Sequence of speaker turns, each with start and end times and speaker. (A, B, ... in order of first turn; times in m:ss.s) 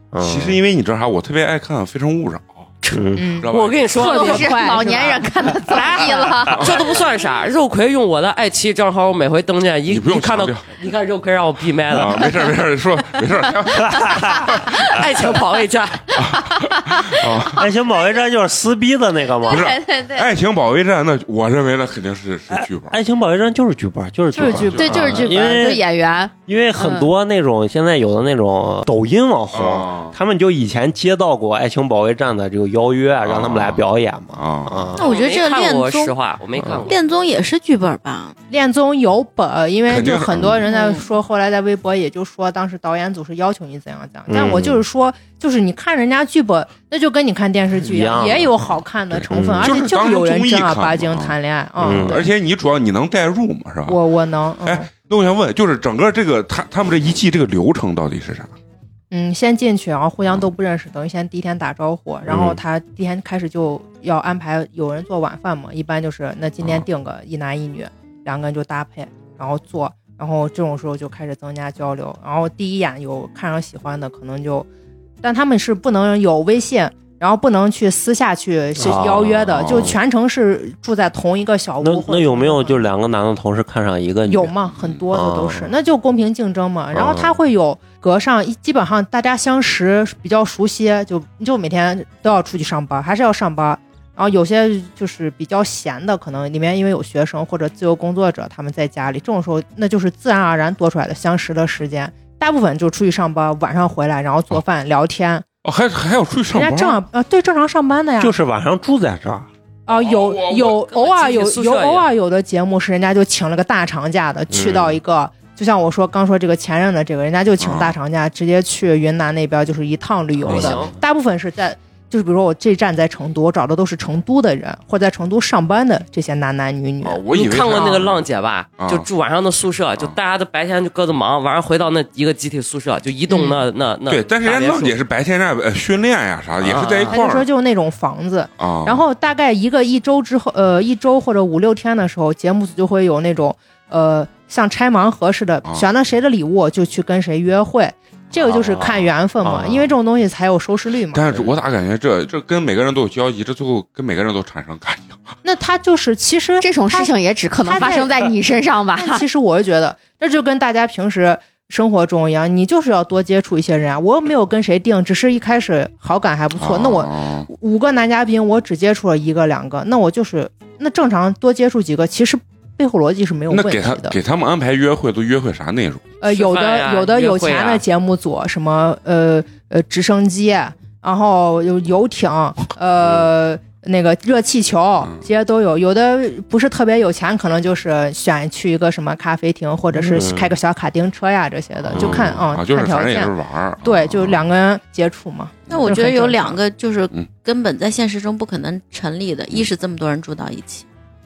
0:00.1-0:00.6 A
0:00.2-0:02.7 B
0:02.9-0:03.4 A
0:03.1-0:06.0 C
0:03.4-0:03.8 B
0:03.5-0:12.3 D
0:03.9-0:06.7 E
0:06.5-0:06.8 B
0:09.9-0:10.6 B
0:11.9-0:15.0 B
0:14.9-0:16.1 D
0:16.1-0:17.7 B
0:17.5-0:19.7 A
0:19.5-0:22.9 B
0:19.5-0:20.2 E
0:22.9-0:25.8 A
0:24.3-0:25.5 C
0:24.4-0:25.0 B
0:24.7-0:27.1 E
0:26.5-0:35.0 A
0:29.5-0:30.1 B
0:33.2-0:33.8 B
0:34.3-0:35.0 B
0:34.9-0:36.1 F
0:35.0-0:36.9 D
0:36.8-0:38.3 F
0:38.5-0:52.3 C
0:39.9-0:40.6 B
0:40.7-0:41.0 F
0:44.3-0:44.8 A
0:47.8-0:48.5 A
0:49.2-0:49.7 A
0:49.6-0:54.0 B
0:51.8-0:52.2 A
0:53.9-0:54.9 C
0:54.6-0:58.5 B
0:59.1-1:14.7 C
1:15.2-1:22.8 C
1:18.8-1:20.0 A
1:19.5-1:19.9 B
1:21.8-1:24.5 A
1:24.3-1:45.4 C
1:25.1-1:25.7 A
1:26.9-1:27.4 A
1:45.6-1:47.0 B
1:46.5-1:48.3 C
1:48.2-1:49.5 A
1:49.9-2:08.0 C
1:49.9-1:50.8 B
1:50.7-1:52.1 D
1:54.5-1:54.9 A
1:57.6-1:57.9 B
2:00.4-2:00.9 A
2:00.5-2:00.9 D
2:07.0-2:08.2 B
2:07.3-2:14.9 D
2:08.8-2:09.1 B
2:13.3-2:13.6 C
2:14.1-2:17.5 B
2:16.6-2:17.1 D
2:17.1-2:31.2 C
2:18.6-2:19.0 B
2:28.4-2:29.9 A
2:31.1-2:35.2 B
2:35.4-2:38.3 C
2:36.6-2:39.2 E
2:39.0-2:54.2 C
2:46.6-2:47.5 B
2:53.5-2:56.0 B
2:56.2-3:16.6 C
2:56.3-2:57.8 D
3:10.0-3:10.5 A
3:11.9-3:12.4 A
3:11.9-3:14.4 B
3:15.7-3:20.8 F